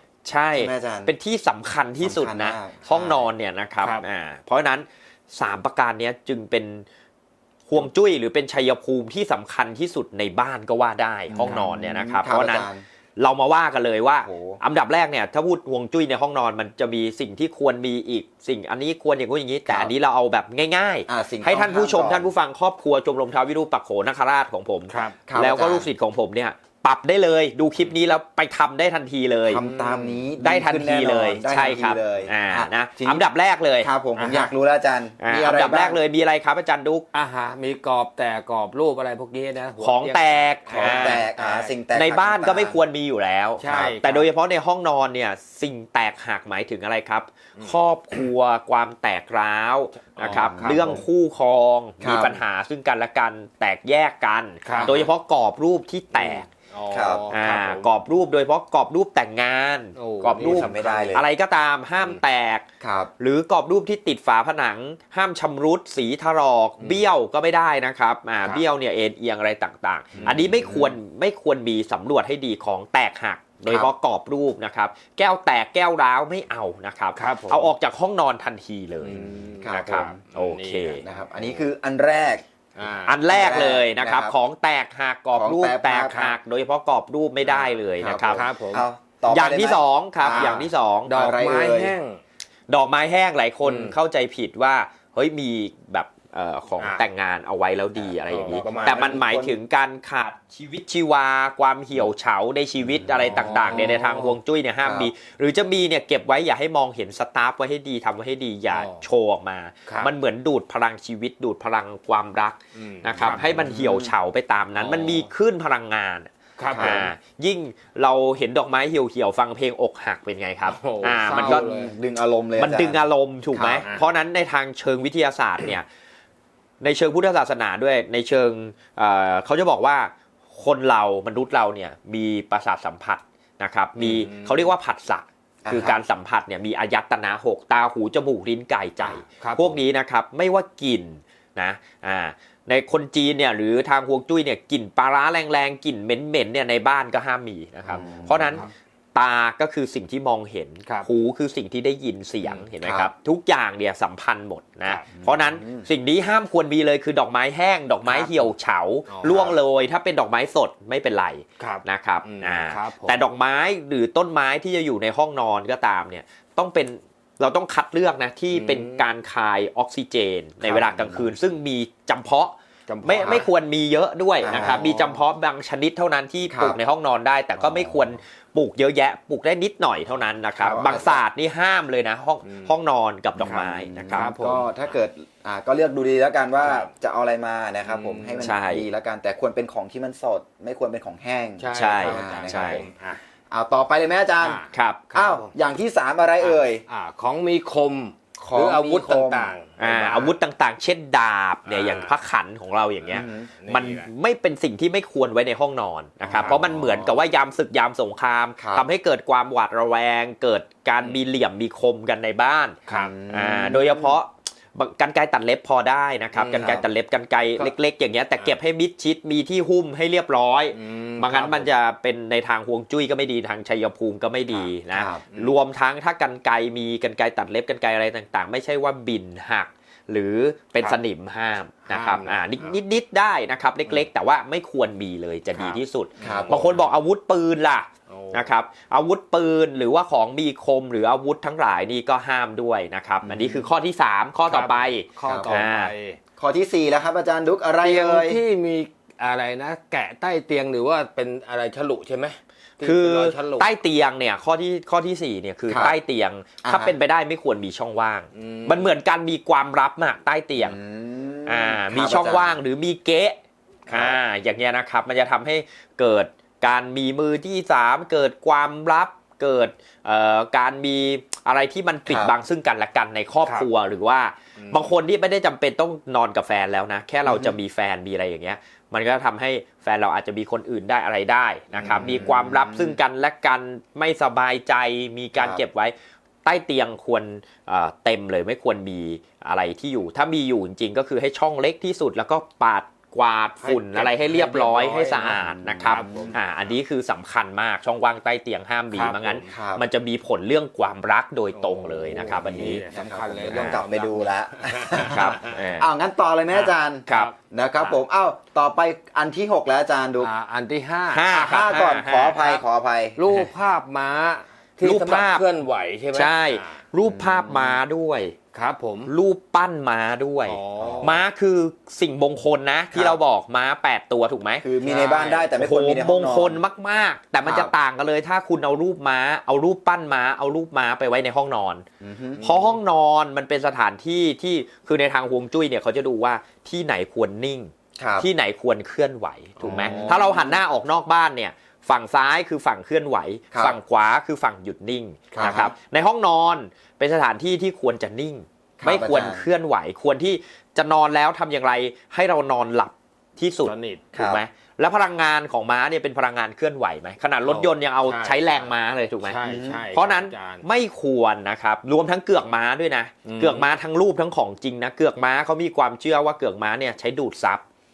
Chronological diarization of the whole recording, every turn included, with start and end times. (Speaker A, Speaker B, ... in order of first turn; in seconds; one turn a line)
Speaker A: 0.2-6.8
Speaker B: 0.6-1.1
Speaker B: 2.0-3.2
Speaker A: 7.7-29.6
Speaker B: 11.3-12.8
Speaker B: 14.2-14.6
Speaker B: 19.6-19.9
Speaker B: 21.1-22.3
Speaker C: 24.9-25.2
Speaker B: 25.3-25.9
Speaker B: 29.5-33.2
Speaker C: 29.6-30.2
Speaker A: 30.4-33.9
Speaker B: 33.8-36.0
Speaker C: 34.2-34.5
Speaker A: 35.2-37.0
Speaker C: 37.1-41.7
Speaker A: 39.8-41.3
Speaker B: 40.7-42.8
Speaker A: 41.9-56.5
Speaker C: 43.6-44.2
Speaker B: 43.7-44.1
Speaker C: 50.1-51.0
Speaker B: 50.2-51.0
Speaker B: 52.0-52.4
Speaker C: 54.6-55.0
Speaker B: 54.7-55.0
Speaker C: 56.3-57.9
Speaker B: 56.9-57.2
Speaker A: 57.3-62.6
Speaker C: 60.0-61.2
Speaker B: 60.4-61.2
Speaker B: 62.8-63.1
Speaker A: 63.2-81.0
Speaker B: 70.1-71.0
Speaker C: 70.2-70.5
Speaker C: 77.2-77.7
Speaker C: 79.0-81.0
Speaker B: 79.1-80.1
Speaker B: 81.0-82.4
Speaker C: 82.8-83.2
Speaker A: 83.1-88.4
Speaker B: 83.3-84.3
Speaker B: 85.3-86.4
Speaker B: 87.5-92.0
Speaker C: 88.3-88.8
Speaker A: 89.3-91.1
Speaker C: 90.3-92.2
Speaker A: 92.7-121.7
Speaker C: 93.6-94.0
Speaker C: 98.3-99.2
Speaker B: 98.3-99.6
Speaker B: 103.0-103.9
Speaker C: 103.0-104.3
Speaker B: 104.8-105.1
Speaker C: 108.7-109.0
Speaker C: 109.8-110.1
Speaker C: 112.7-113.7
Speaker B: 113.2-114.1
Speaker C: 114.8-115.3
Speaker C: 116.6-117.1
Speaker B: 116.7-117.1
Speaker C: 120.7-121.9
Speaker B: 121.3-123.9
Speaker A: 122.6-125.8
Speaker A: 126.8-184.3
Speaker C: 134.0-134.7
Speaker B: 135.6-136.0
Speaker C: 139.2-139.8
Speaker C: 147.8-148.7
Speaker B: 147.9-148.6
Speaker B: 152.8-153.1
Speaker B: 155.2-155.9
Speaker C: 158.1-158.5
Speaker C: 159.1-159.5
Speaker C: 161.6-163.2
Speaker C: 168.5-169.0
Speaker C: 170.6-171.1
Speaker C: 172.9-173.5
Speaker B: 174.4-174.9
Speaker C: 174.5-175.2
Speaker B: 176.5-176.8
Speaker B: 177.6-178.1
Speaker C: 180.6-180.9
Speaker B: 180.7-181.2
Speaker C: 182.4-182.7
Speaker C: 183.4-184.9
Speaker B: 183.4-192.9
Speaker C: 186.6-186.9
Speaker C: 187.8-188.5
Speaker A: 188.4-188.8
Speaker C: 191.6-193.2
Speaker A: 191.7-192.8
Speaker B: 193.5-194.6
Speaker C: 194.4-195.5
Speaker A: 194.7-195.1
Speaker B: 195.1-196.8
Speaker C: 196.4-200.3
Speaker B: 198.4-199.5
Speaker A: 199.8-212.8
Speaker C: 201.6-202.2
Speaker B: 203.1-203.5
Speaker C: 203.6-204.1
Speaker B: 206.2-207.2
Speaker B: 208.6-208.8
Speaker C: 212.9-213.1
Speaker B: 212.9-214.2
Speaker A: 213.3-245.9
Speaker C: 216.3-216.8
Speaker B: 216.5-216.8
Speaker C: 220.7-221.7
Speaker B: 224.9-225.2
Speaker C: 231.9-232.8
Speaker C: 235.5-236.8
Speaker B: 236.2-236.7
Speaker C: 238.1-238.4
Speaker B: 243.2-243.7
Speaker C: 244.5-246.2
Speaker B: 245.2-245.5
Speaker B: 246.4-248.4
Speaker C: 247.8-253.7
Speaker A: 252.8-260.8
Speaker B: 255.7-255.9
Speaker B: 256.6-256.9
Speaker C: 258.3-258.9
Speaker B: 260.6-262.6
Speaker A: 261.4-302.8
Speaker B: 263.9-264.2
Speaker B: 272.1-272.3
Speaker C: 274.6-274.9
Speaker B: 277.2-277.5
Speaker B: 281.7-283.0
Speaker C: 293.6-296.4
Speaker B: 295.6-296.4
Speaker C: 298.9-299.5
Speaker B: 299.5-299.8
Speaker C: 301.5-305.6
Speaker B: 302.2-310.3
Speaker A: 303.5-303.8
Speaker A: 305.0-305.9
Speaker C: 306.5-307.3
Speaker A: 307.1-307.3
Speaker C: 310.2-311.3
Speaker A: 311.1-312.6
Speaker B: 311.3-313.2
Speaker C: 313.2-316.8
Speaker A: 314.8-315.5
Speaker A: 316.1-318.4
Speaker C: 317.4-317.8
Speaker C: 318.5-319.1
Speaker A: 319.1-324.6
Speaker C: 320.4-321.2
Speaker B: 320.8-321.2
Speaker B: 322.9-323.2
Speaker B: 324.6-326.6
Speaker C: 324.8-325.5
Speaker A: 325.6-331.9
Speaker B: 327.4-327.7
Speaker B: 332.0-332.4
Speaker C: 332.4-332.8
Speaker A: 332.4-359.4
Speaker B: 338.0-338.3
Speaker C: 339.6-340.3
Speaker B: 339.6-340.6
Speaker B: 343.5-343.8
Speaker C: 345.3-345.7
Speaker B: 345.3-345.7
Speaker B: 348.8-349.4
Speaker C: 353.6-354.0
Speaker B: 354.1-354.4
Speaker C: 357.4-358.7
Speaker C: 359.2-360.6
Speaker B: 359.4-359.9
Speaker A: 359.9-367.6
Speaker C: 363.2-363.7